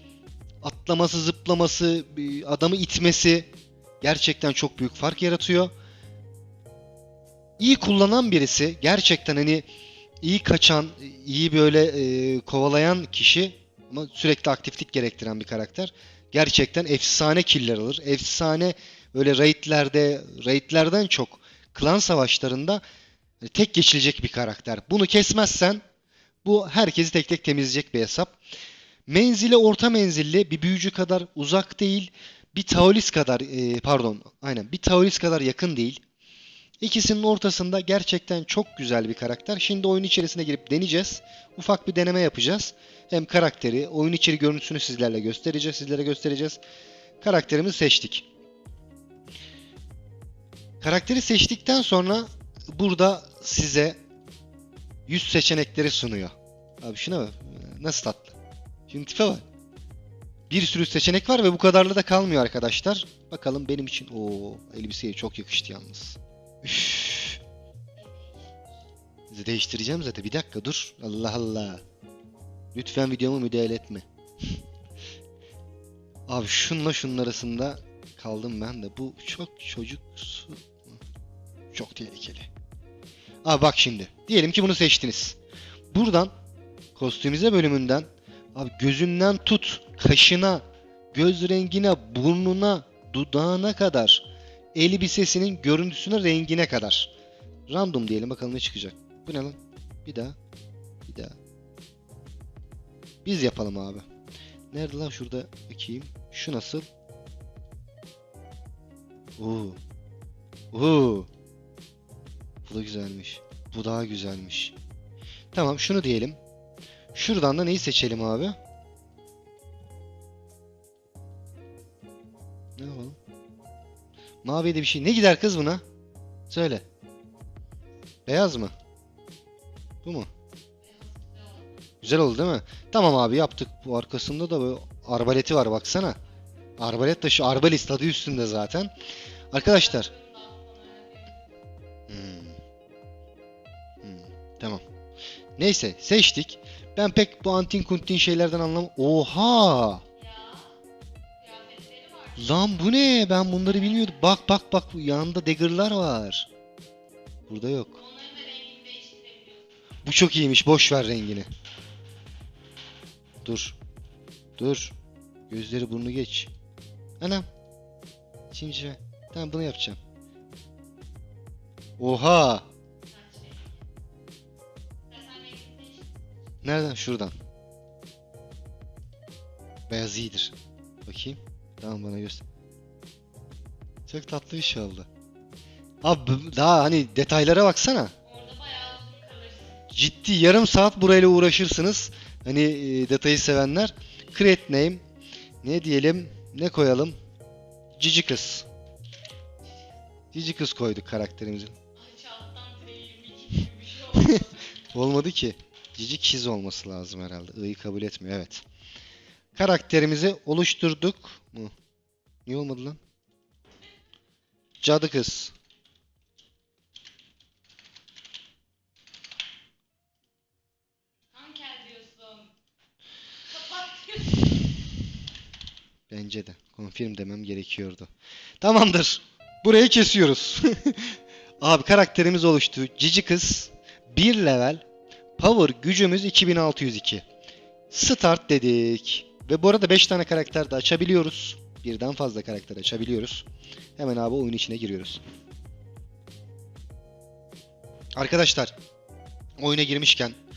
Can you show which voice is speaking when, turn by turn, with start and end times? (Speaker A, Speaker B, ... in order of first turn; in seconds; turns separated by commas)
Speaker A: 0.6-3.5, Speaker A: 4.0-5.7, Speaker A: 7.6-9.6, Speaker A: 10.2-22.8, Speaker A: 23.4-25.8, Speaker A: 26.4-28.4, Speaker A: 29.1-36.0, Speaker A: 36.8-46.6, Speaker A: 47.2-48.2, Speaker A: 50.8-54.0, Speaker A: 55.1-58.4, Speaker A: 58.9-59.4, Speaker A: 60.5-67.4, Speaker B: 68.0-68.6, Speaker A: 69.3-71.8, Speaker A: 72.7-74.0, Speaker A: 76.3-81.0, Speaker A: 81.7-82.5, Speaker A: 83.4-85.4, Speaker A: 85.9-86.3, Speaker A: 87.0-97.1, Speaker A: 97.7-100.4, Speaker A: 101.0-101.3, Speaker A: 103.2-104.0, Speaker A: 104.7-106.9, Speaker A: 109.4-109.8, Speaker A: 110.7-111.3, Speaker A: 112.6-114.8, Speaker A: 115.5-116.4, Speaker A: 117.1-118.5, Speaker A: 122.8-123.2, Speaker A: 124.4-125.8, Speaker A: 126.5-126.8, Speaker A: 128.3-128.7, Speaker B: 130.8-131.9, Speaker A: 132.0-136.2, Speaker A: 136.8-138.9, Speaker A: 139.5-140.1, Speaker B: 139.5-141.6, Speaker A: 142.1-142.6, Speaker A: 144.0-144.8, Speaker A: 145.6-150.0, Speaker B: 150.2-150.8, Speaker B: 151.4-152.6, Speaker A: 152.4-156.5, Speaker B: 153.9-154.2, Speaker A: 157.5-158.0, Speaker B: 157.9-159.7, Speaker A: 160.0-161.5, Speaker A: 163.4-163.8, Speaker A: 164.6-164.9, Speaker A: 165.5-166.5, Speaker A: 167.2-167.5, Speaker A: 168.5-170.0, Speaker A: 172.0-172.7, Speaker B: 173.0-173.8, Speaker B: 175.1-176.3, Speaker A: 176.6-177.3, Speaker A: 179.9-180.5, Speaker A: 181.1-182.4, Speaker A: 184.1-185.1, Speaker A: 186.0-188.1, Speaker B: 188.2-189.9, Speaker A: 189.9-195.0, Speaker A: 195.6-197.2, Speaker A: 198.0-198.7, Speaker A: 200.3-201.8, Speaker B: 202.0-204.7, Speaker A: 204.1-208.6, Speaker A: 209.5-211.7, Speaker A: 212.4-213.0, Speaker A: 214.8-215.5, Speaker B: 221.3-222.5, Speaker B: 223.4-224.8, Speaker A: 226.1-228.1, Speaker A: 228.6-234.8, Speaker A: 235.4-237.2, Speaker A: 237.9-243.4, Speaker A: 244.0-245.2, Speaker A: 248.2-248.7, Speaker A: 249.6-250.4